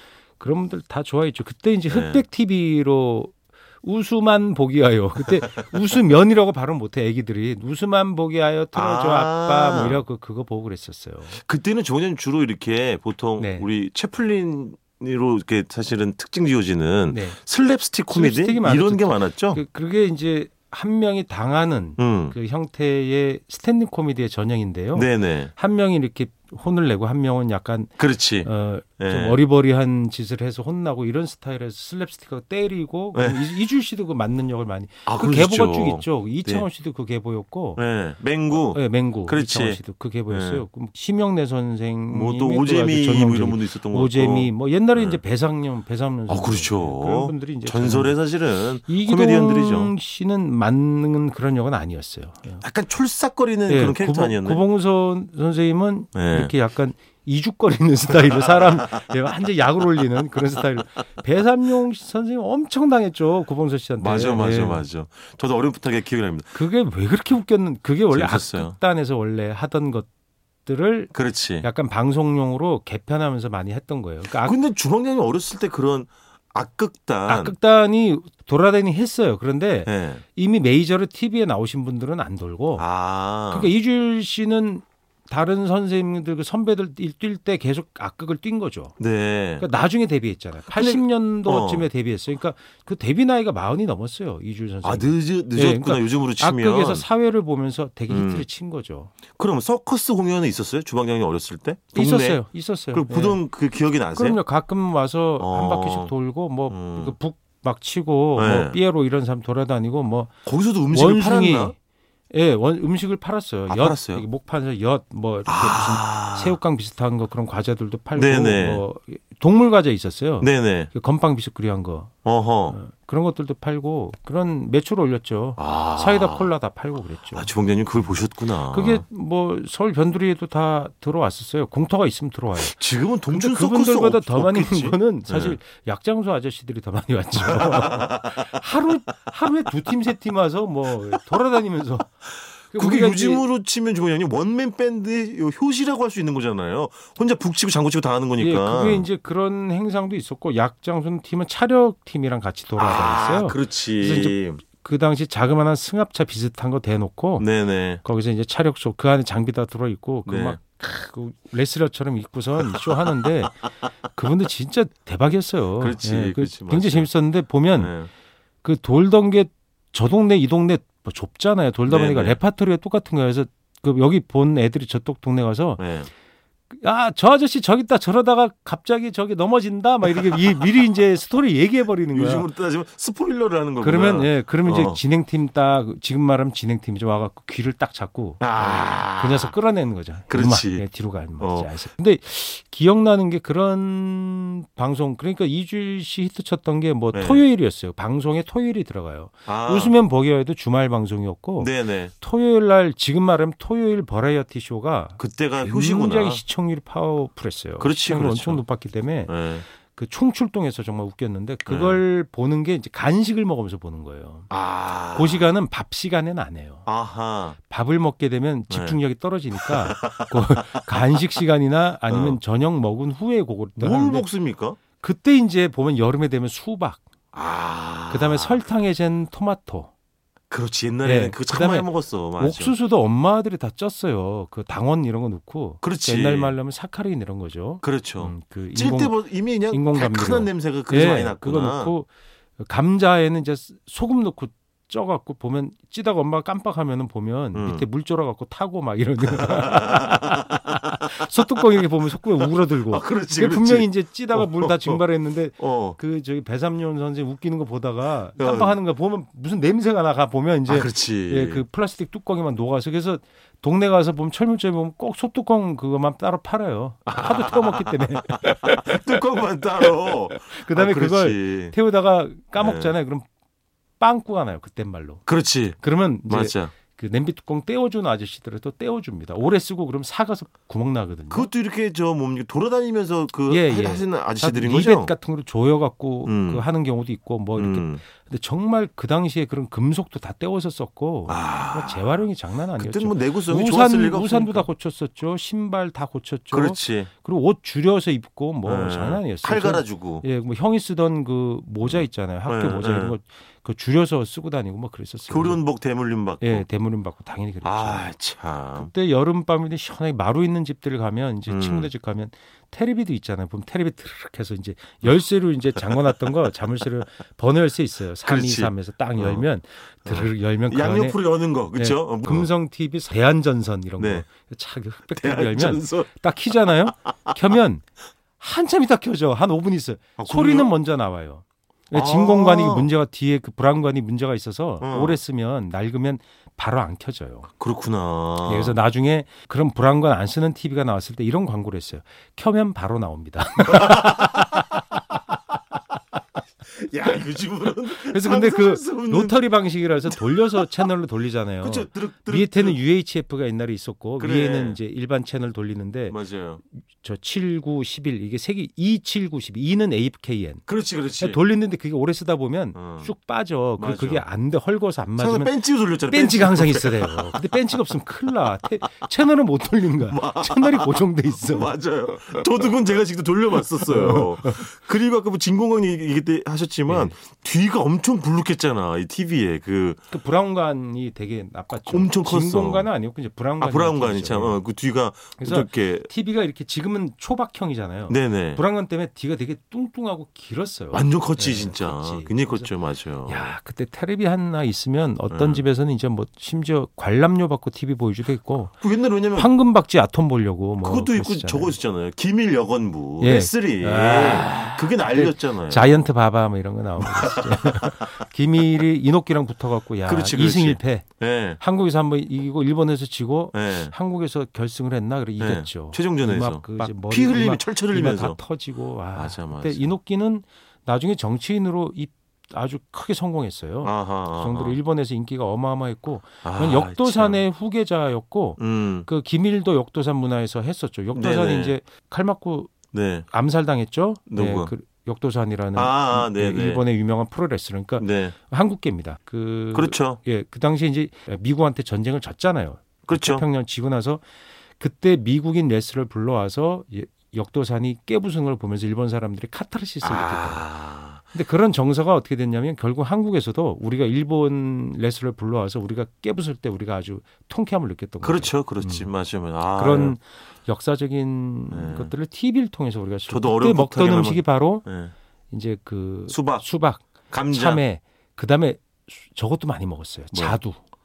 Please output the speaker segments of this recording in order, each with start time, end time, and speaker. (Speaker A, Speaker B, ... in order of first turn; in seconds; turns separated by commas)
Speaker A: 0.4-11.4, Speaker B: 1.9-2.2, Speaker B: 8.7-10.0, Speaker B: 11.3-19.6, Speaker A: 13.4-13.7, Speaker A: 17.1-17.4, Speaker A: 18.1-37.8, Speaker B: 22.0-22.4, Speaker B: 24.9-25.5, Speaker B: 28.0-29.4, Speaker B: 33.1-33.5, Speaker B: 35.1-36.7, Speaker B: 37.8-40.6, Speaker A: 38.5-48.2, Speaker B: 42.1-45.2, Speaker B: 46.3-49.9, Speaker A: 48.9-52.7, Speaker B: 52.6-54.6, Speaker A: 53.7-64.9, Speaker B: 56.1-56.5, Speaker B: 58.1-59.0, Speaker B: 64.0-66.6, Speaker A: 66.5-70.1, Speaker B: 68.1-68.8, Speaker A: 70.7-74.6, Speaker B: 71.1-71.7, Speaker B: 74.2-77.6, Speaker A: 77.3-82.9, Speaker B: 79.8-80.2, Speaker B: 82.8-83.7, Speaker A: 83.5-89.0, Speaker B: 89.0-89.7, Speaker A: 89.6-99.1, Speaker B: 90.7-91.9, Speaker B: 94.8-97.1, Speaker B: 98.1-98.5, Speaker B: 99.3-104.4, Speaker A: 102.0-103.4, Speaker A: 104.1-110.3, Speaker B: 105.4-106.1, Speaker B: 106.7-107.2, Speaker B: 108.3-108.8, Speaker B: 110.5-111.7, Speaker A: 110.9-111.8, Speaker A: 112.3-122.1, Speaker B: 113.7-114.2, Speaker B: 115.5-116.6, Speaker B: 118.2-118.8, Speaker B: 120.4-120.9, Speaker B: 122.2-122.8, Speaker A: 122.7-127.5, Speaker B: 125.6-126.5, Speaker B: 127.3-129.0, Speaker A: 128.7-132.8, Speaker B: 132.6-135.6, Speaker A: 133.3-142.1, Speaker B: 137.4-138.4, Speaker A: 142.7-143.5, Speaker B: 142.7-149.1, Speaker A: 148.4-157.5, Speaker B: 152.8-154.6, Speaker B: 157.4-158.0, Speaker A: 158.0-168.0, Speaker B: 160.3-160.6, Speaker B: 165.8-167.1, Speaker B: 167.8-168.1, Speaker A: 168.6-175.9, Speaker B: 171.9-172.4, Speaker B: 175.8-176.1, Speaker A: 176.7-182.5, Speaker B: 180.0-180.6, Speaker B: 182.1-185.0, Speaker A: 183.8-214.5, Speaker B: 188.4-189.5, Speaker B: 190.3-190.9, Speaker B: 191.4-191.7, Speaker B: 197.1-197.4, Speaker B: 199.5-199.9, Speaker B: 201.6-202.1, Speaker B: 205.2-206.4, Speaker B: 207.8-208.6, Speaker B: 209.3-209.7, Speaker B: 211.7-212.0, Speaker B: 214.5-215.5, Speaker A: 215.1-216.9, Speaker B: 216.9-217.6, Speaker A: 217.6-224.3, Speaker B: 218.7-219.0, Speaker B: 219.5-221.2, Speaker B: 222.1-222.4, Speaker B: 223.8-224.8, Speaker A: 225.0-227.0, Speaker B: 227.3-228.6, Speaker A: 228.1-229.9, Speaker B: 230.5-232.8, Speaker A: 231.0-269.2, Speaker B: 235.8-236.5, Speaker B: 237.8-241.9, Speaker B: 247.6-247.8, Speaker B: 249.2-251.0, Speaker B: 252.4-255.0, Speaker B: 255.6-256.0, Speaker B: 258.4-258.8, Speaker B: 260.7-261.6, Speaker B: 267.1-271.8, Speaker A: 269.8-273.3, Speaker B: 272.6-272.9, Speaker A: 274.0-281.5, Speaker B: 275.3-276.7, Speaker B: 281.3-285.1, Speaker A: 283.5-305.6, Speaker B: 286.2-286.6, Speaker B: 287.6-288.0, Speaker B: 291.3-292.2, Speaker B: 292.8-294.7, Speaker B: 296.5-297.1, Speaker B: 298.6-300.2, Speaker B: 301.8-303.2, Speaker B: 305.3-306.6, Speaker A: 306.4-308.1, Speaker B: 307.6-308.9, Speaker A: 308.8-321.2, Speaker B: 311.5-311.9, Speaker B: 318.2-319.5, Speaker B: 320.1-322.5, Speaker A: 321.7-327.9, Speaker B: 324.0-324.2, Speaker B: 325.1-326.1, Speaker B: 326.9-327.3, Speaker A: 328.4-337.5, Speaker B: 330.2-330.7, Speaker B: 331.9-332.9, Speaker B: 334.8-335.2, Speaker B: 337.6-338.8, Speaker A: 338.4-344.4, Speaker B: 343.7-344.8, Speaker B: 346.6-349.5, Speaker A: 348.0-356.2, Speaker B: 350.0-350.9, Speaker B: 351.6-352.8, Speaker B: 354.2-354.8, Speaker B: 356.1-356.6, Speaker A: 356.9-360.7, Speaker B: 360.7-361.4, Speaker A: 361.2-371.7, Speaker B: 362.8-363.1, Speaker B: 363.8-364.2, Speaker B: 365.2-367.4, Speaker B: 370.1-380.0, Speaker A: 373.8-374.6, Speaker A: 376.9-377.2, Speaker A: 380.1-384.6, Speaker B: 381.9-382.9, Speaker B: 383.6-386.1, Speaker A: 385.4-392.7, Speaker B: 388.1-388.6, Speaker B: 390.9-393.5, Speaker A: 393.3-398.8, Speaker B: 395.3-395.7, Speaker B: 398.8-399.5, Speaker A: 399.3-401.8, Speaker B: 400.8-406.1, Speaker A: 403.2-411.1, Speaker B: 407.0-408.1, Speaker B: 410.1-411.6, Speaker A: 411.6-432.7, Speaker B: 413.5-413.9, Speaker B: 415.4-418.4, Speaker B: 419.1-419.9, Speaker B: 423.8-424.8, Speaker B: 426.4-427.4, Speaker B: 428.6-429.1, Speaker B: 431.1-431.8, Speaker B: 432.9-433.3, Speaker A: 433.3-444.2, Speaker B: 434.3-434.7, Speaker B: 435.8-436.8, Speaker B: 438.0-438.4, Speaker B: 439.7-440.2, Speaker B: 443.1-443.4, Speaker A: 444.8-450.6, Speaker B: 450.0-451.2, Speaker A: 451.3-459.1, Speaker B: 458.2-460.2, Speaker A: 459.7-464.9, Speaker B: 461.7-462.1, Speaker B: 463.3-465.1, Speaker A: 465.5-470.8, Speaker B: 466.3-466.6, Speaker B: 467.3-467.8, Speaker B: 470.3-470.6